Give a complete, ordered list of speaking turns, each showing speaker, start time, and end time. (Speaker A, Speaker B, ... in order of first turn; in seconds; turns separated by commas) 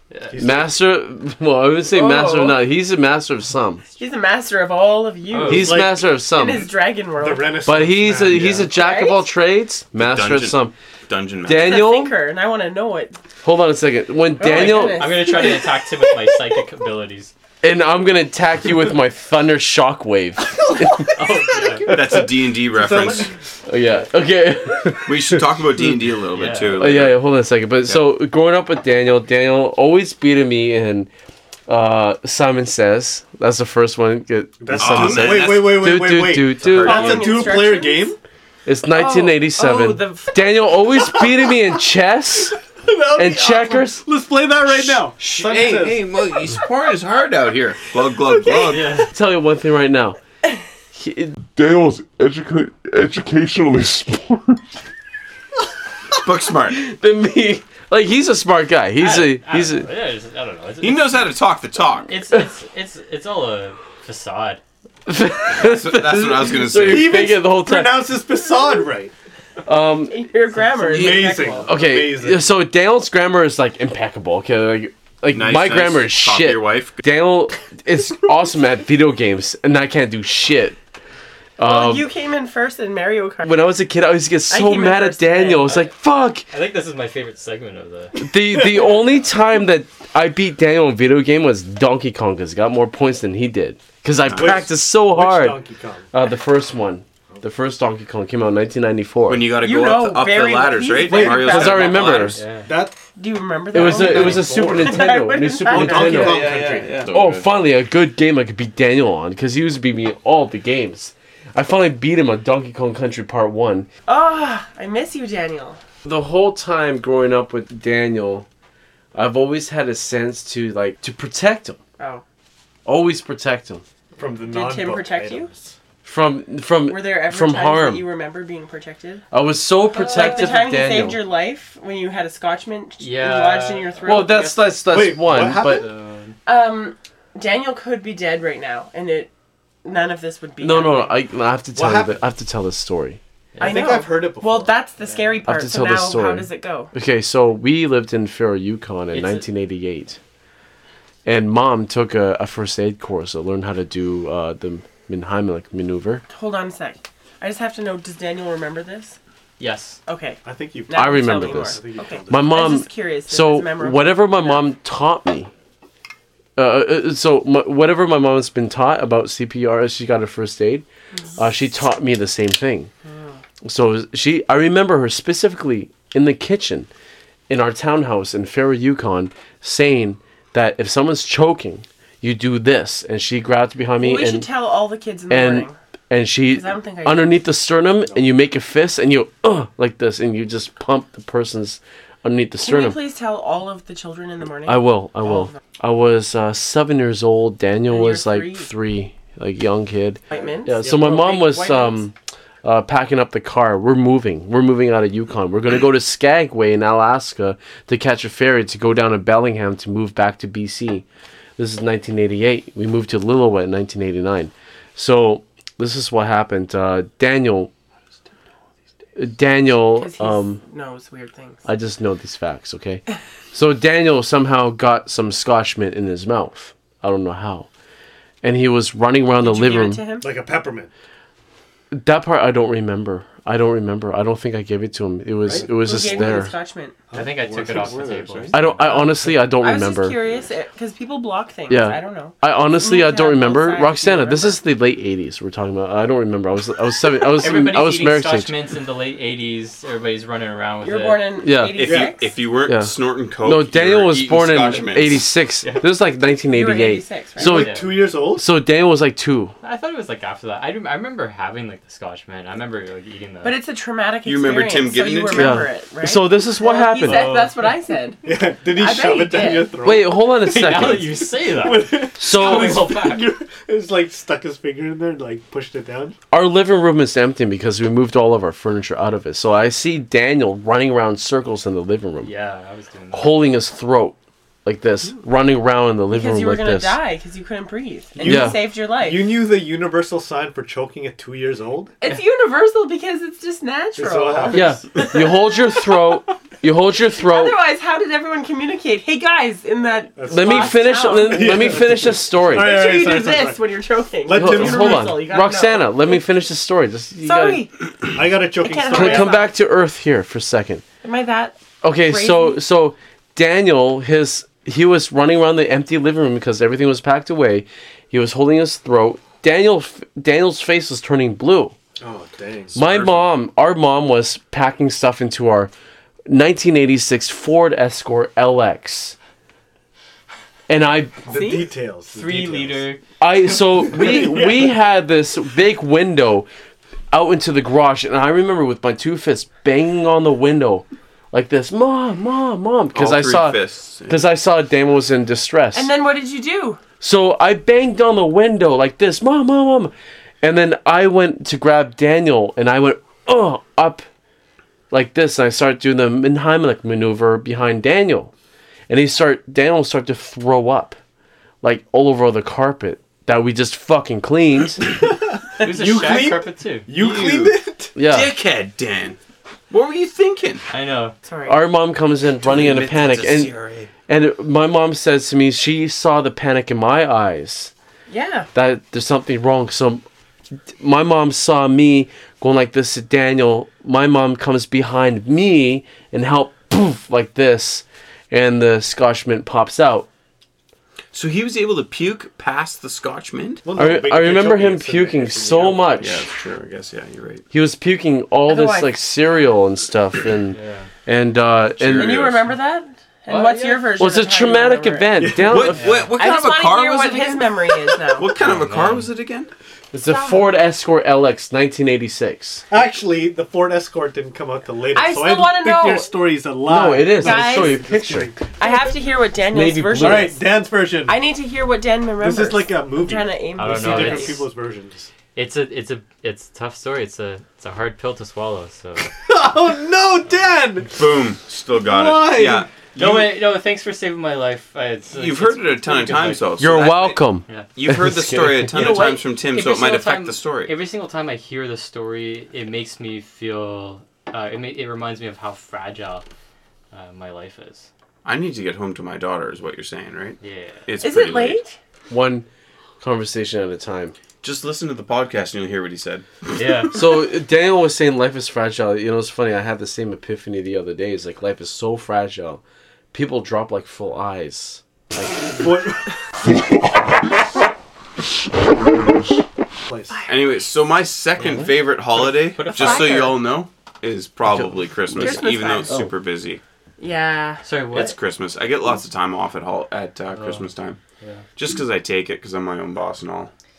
Speaker A: 0.1-0.4, Speaker B: 0.3-0.7, Speaker C: 0.4-3.8, Speaker D: 1.9-2.6, Speaker D: 4.0-7.7, Speaker A: 5.3-5.8, Speaker C: 5.5-6.7, Speaker B: 5.5-6.0, Speaker B: 7.2-8.7, Speaker C: 7.7-10.7, Speaker D: 8.6-9.3, Speaker E: 10.0-11.8, Speaker C: 11.4-12.1, Speaker D: 11.5-13.2, Speaker C: 13.4-15.2, Speaker D: 14.4-15.9, Speaker A: 14.4-17.3, Speaker C: 17.6-21.1, Speaker A: 21.0-22.0, Speaker E: 21.9-23.3, Speaker C: 21.9-22.2, Speaker B: 22.7-23.3, Speaker C: 23.6-25.9, Speaker E: 25.1-27.2, Speaker A: 26.3-26.9, Speaker C: 26.8-31.1, Speaker C: 31.7-37.1, Speaker B: 34.6-38.2, Speaker E: 34.8-35.9, Speaker E: 36.6-37.5, Speaker D: 36.8-38.2, Speaker C: 38.6-42.6, Speaker D: 38.9-40.5, Speaker B: 42.8-46.0, Speaker C: 43.1-44.0, Speaker E: 45.2-49.0, Speaker A: 48.6-49.1, Speaker C: 49.0-50.2, Speaker C: 50.9-51.4, Speaker F: 51.5-54.6, Speaker E: 56.2-56.8, Speaker C: 56.7-59.9, Speaker A: 59.0-61.3, Speaker E: 60.8-62.1, Speaker A: 62.0-64.6, Speaker C: 65.1-68.1, Speaker E: 65.5-67.3, Speaker B: 66.8-69.1, Speaker C: 69.6-70.2, Speaker D: 70.1-71.7, Speaker B: 70.7-72.5, Speaker A: 71.4-71.6, Speaker C: 71.6-80.8, Speaker E: 75.3-77.0, Speaker C: 81.6-82.1, Speaker D: 81.6-83.7, Speaker C: 83.4-86.5, Speaker D: 84.5-85.7, Speaker A: 85.6-85.9, Speaker A: 86.5-88.2, Speaker C: 88.1-95.6, Speaker E: 94.2-94.6, Speaker B: 94.3-96.1, Speaker C: 96.1-99.5, Speaker E: 99.3-102.4, Speaker D: 99.6-102.2, Speaker B: 101.0-102.0, Speaker C: 101.4-102.4, Speaker A: 102.3-102.7, Speaker B: 102.6-103.0, Speaker D: 103.2-106.5, Speaker C: 103.7-113.9, Speaker B: 103.7-105.0, Speaker B: 105.7-107.0, Speaker E: 106.1-107.5, Speaker D: 114.1-115.8, Speaker C: 116.0-118.5, Speaker C: 119.1-121.8, Speaker C: 122.8-123.8, Speaker B: 124.2-125.8, Speaker D: 124.5-125.5, Speaker C: 126.0-128.0, Speaker D: 126.8-129.2, Speaker C: 129.3-131.2, Speaker D: 129.9-134.7, Speaker A: 133.0-134.6, Speaker C: 134.1-135.8, Speaker B: 134.9-135.9, Speaker A: 135.3-136.4, Speaker D: 136.4-139.3, Speaker D: 139.8-141.2, Speaker C: 140.6-143.2, Speaker B: 141.7-142.2, Speaker A: 143.5-144.0, Speaker B: 143.6-144.7, Speaker D: 143.6-146.9, Speaker A: 145.0-145.4, Speaker C: 145.4-150.2, Speaker A: 149.1-149.4, Speaker C: 151.2-156.2, Speaker D: 156.3-159.2, Speaker A: 159.6-160.0, Speaker D: 160.1-164.7, Speaker B: 160.4-162.6, Speaker C: 160.9-165.5, Speaker C: 166.6-170.8, Speaker C: 171.3-172.9, Speaker D: 173.1-173.4, Speaker C: 173.6-176.9, Speaker C: 177.5-184.5, Speaker D: 184.0-185.8, Speaker C: 185.3-193.0, Speaker D: 186.5-187.4, Speaker D: 192.6-195.5, Speaker C: 194.7-202.1, Speaker D: 197.9-198.7, Speaker D: 200.3-202.1, Speaker B: 200.3-201.1, Speaker C: 202.6-211.0, Speaker C: 211.6-217.7, Speaker C: 219.2-220.6, Speaker D: 219.9-221.7, Speaker C: 221.7-227.7, Speaker C: 228.4-230.0, Speaker D: 229.4-230.3, Speaker B: 230.2-230.9, Speaker C: 231.9-236.5, Speaker B: 235.5-236.0, Speaker D: 235.6-237.0, Speaker B: 237.1-238.6, Speaker A: 237.1-239.1, Speaker E: 237.8-238.7, Speaker C: 238.5-240.2, Speaker D: 239.5-244.6, Speaker C: 241.7-248.5, Speaker A: 247.3-251.2, Speaker D: 250.8-252.3, Speaker C: 251.4-251.8, Speaker E: 251.7-255.2, Speaker B: 251.8-252.1, Speaker C: 252.7-257.8, Speaker D: 256.5-257.7, Speaker B: 257.4-258.4, Speaker A: 257.4-258.0, Speaker C: 258.3-259.5, Speaker A: 259.6-263.6, Speaker D: 263.4-269.9, Speaker E: 264.2-265.7, Speaker C: 265.3-267.4, Speaker A: 267.0-267.6, Speaker B: 268.2-276.2, Speaker C: 269.8-271.2, Speaker A: 270.3-273.3, Speaker C: 272.1-272.9, Speaker C: 276.3-282.3, Speaker A: 282.2-283.6, Speaker C: 283.1-287.0, Speaker D: 286.1-289.3, Speaker B: 288.1-291.9, Speaker C: 288.2-288.6, Speaker D: 292.0-296.1, Speaker B: 293.9-295.1, Speaker C: 294.5-297.6, Speaker D: 297.0-301.8, Speaker B: 300.1-303.7, Speaker C: 300.3-302.7, Speaker D: 302.5-306.2, Speaker B: 304.2-305.2, Speaker C: 304.3-307.7, Speaker D: 307.2-307.7, Speaker B: 308.1-309.4, Speaker D: 308.4-309.5, Speaker C: 308.9-310.8, Speaker D: 311.0-312.6, Speaker C: 311.8-321.7, Speaker B: 322.0-323.2, Speaker C: 322.7-325.7, Speaker C: 326.3-329.1, Speaker C: 330.7-331.3, Speaker D: 331.2-331.7, Speaker B: 331.2-332.9, Speaker A: 332.1-333.0, Speaker C: 333.2-336.5, Speaker B: 333.5-334.8, Speaker C: 337.1-345.9, Speaker E: 342.9-344.2, Speaker D: 345.7-346.8, Speaker C: 347.0-354.0, Speaker C: 354.9-358.3, Speaker C: 358.9-360.9, Speaker C: 361.6-364.9, Speaker B: 365.0-367.9, Speaker A: 365.6-366.9, Speaker E: 366.0-366.2, Speaker E: 366.9-369.2, Speaker C: 367.9-368.3, Speaker E: 369.7-370.6, Speaker A: 370.7-371.1, Speaker D: 371.2-371.6, Speaker C: 371.5-373.5, Speaker E: 372.4-373.9, Speaker C: 374.1-377.7, Speaker D: 378.1-378.5, Speaker C: 378.5-380.0, Speaker C: 380.8-390.1, Speaker E: 391.1-393.6, Speaker B: 393.6-396.1, Speaker C: 393.8-396.2, Speaker E: 396.0-397.4, Speaker C: 397.5-402.1, Speaker D: 398.5-399.0, Speaker A: 400.5-400.9, Speaker E: 401.8-402.5, Speaker D: 401.9-405.3, Speaker A: 403.3-403.9, Speaker C: 404.0-406.1, Speaker B: 405.2-405.7, Speaker E: 405.4-409.5, Speaker A: 405.7-406.1, Speaker D: 406.1-408.4, Speaker A: 408.3-409.1, Speaker C: 409.9-412.6, Speaker D: 410.1-410.5, Speaker B: 412.7-418.5, Speaker D: 414.9-416.1, Speaker C: 416.6-418.3, Speaker D: 417.1-417.9, Speaker D: 418.6-420.4, Speaker C: 419.5-420.3, Speaker B: 420.0-421.2, Speaker D: 421.1-424.4, Speaker B: 422.2-425.1, Speaker A: 423.6-424.5, Speaker A: 425.3-429.1, Speaker B: 429.2-431.0, Speaker E: 430.9-433.4, Speaker B: 431.8-432.7, Speaker A: 432.9-436.5, Speaker E: 435.1-437.2, Speaker C: 436.6-438.9, Speaker E: 437.8-440.7, Speaker D: 438.7-439.2, Speaker A: 438.7-446.2, Speaker A: 446.9-447.9, Speaker E: 448.2-451.6, Speaker A: 450.4-450.9, Speaker D: 451.0-451.8, Speaker C: 452.1-452.4, Speaker C: 453.0-454.1, Speaker E: 454.4-456.9, Speaker A: 456.5-457.0, Speaker C: 456.9-462.6, Speaker C: 463.1-465.4, Speaker B: 465.6-466.2, Speaker B: 469.9-470.2, Speaker D: 470.1-470.3, Speaker E: 470.3-476.6, Speaker A: 471.4-471.7, Speaker A: 472.5-473.3, Speaker D: 472.7-473.4, Speaker C: 474.4-476.1, Speaker D: 475.2-476.0, Speaker D: 477.0-477.7, Speaker A: 477.6-478.1, Speaker E: 477.9-481.0, Speaker A: 480.3-481.4, Speaker E: 481.6-483.5